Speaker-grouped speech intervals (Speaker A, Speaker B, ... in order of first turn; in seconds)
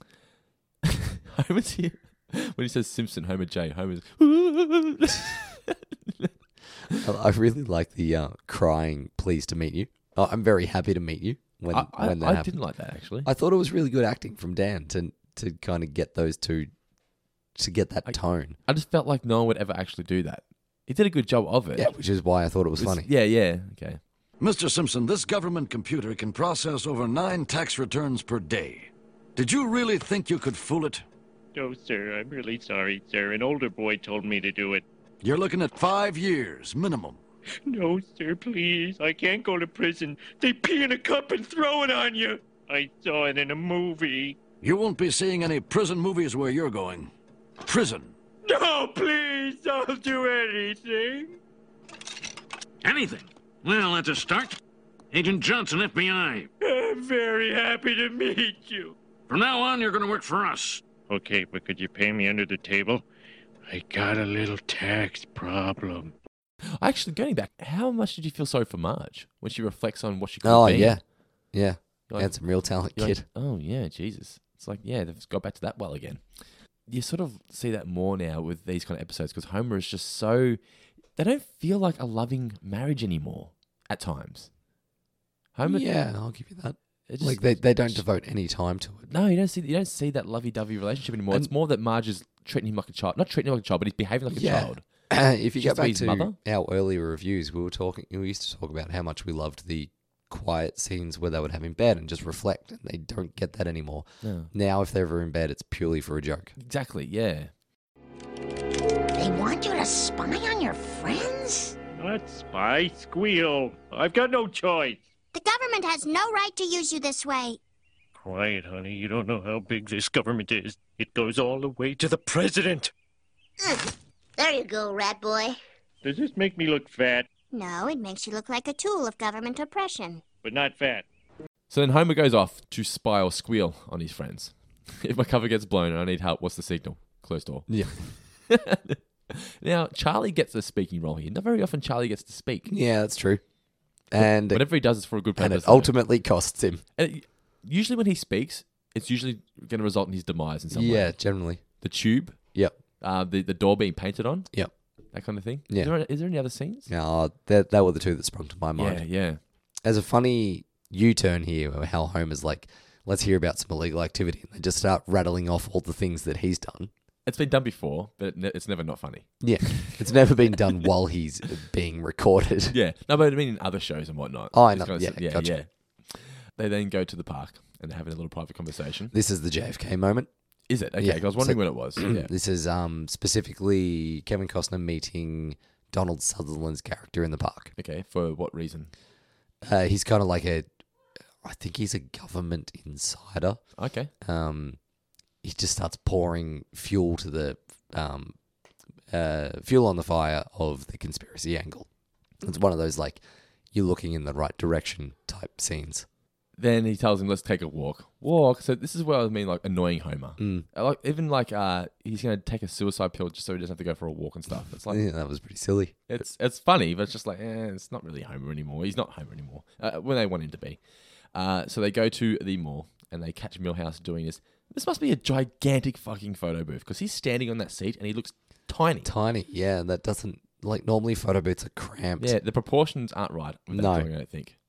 Speaker A: 0.9-6.3, 11.7-13.3, 18.1-21.9, 22.8-24.0, 66.8-71.0, 72.1-72.4, 72.9-76.3, 76.9-80.6, 81.2-84.5, 85.5-85.9, 87.1-88.0, 89.1-94.8, 95.6-96.4, 104.2-104.5, 106.6-107.5, 131.7-137.7, 138.5-142.7, 144.2-145.9, 147.0-151.2, 151.8-152.4, 153.0-154.5, 155.1-156.9, 158.8-159.4, 167.2-170.1, 172.7-179.1, 180.7-182.3, 187.8-188.9, 193.8-194.1, 206.6-215.0, 216.1-220.8, 221.3-229.1, 232.2-234.6
Speaker B: 7.0-12.6, 13.2-16.7, 17.6-18.6, 21.8-23.1, 70.4-73.2, 85.6-89.1, 94.3-106.5, 137.7-138.0, 142.7-143.4, 144.1-144.7, 145.4-146.8, 150.7-151.6, 156.9-159.1, 159.8-166.9, 169.4-172.8, 174.5-175.5, 179.1-180.3, 181.0-187.7, 189.6-190.7, 191.4-193.6, 194.2-194.8, 195.4-198.3, 199.1-201.9, 202.4-206.1, 210.4-210.7, 214.9-216.2, 229.0-232.4, 233.7-234.1
Speaker C: 24.4-31.1, 35.2-37.2, 44.6-48.1
Speaker D: 31.6-34.8, 37.7-44.4, 48.5-51.4, 56.6-59.0, 61.1-63.0, 63.7-66.1, 112.0-115.0, 118.2-122.9, 126.0-127.3, 130.4-131.1
Speaker E: 52.8-54.6, 55.1-56.5, 59.3-60.8
Speaker F: 109.1-111.8, 115.3-117.6, 123.6-125.6, 127.5-130.2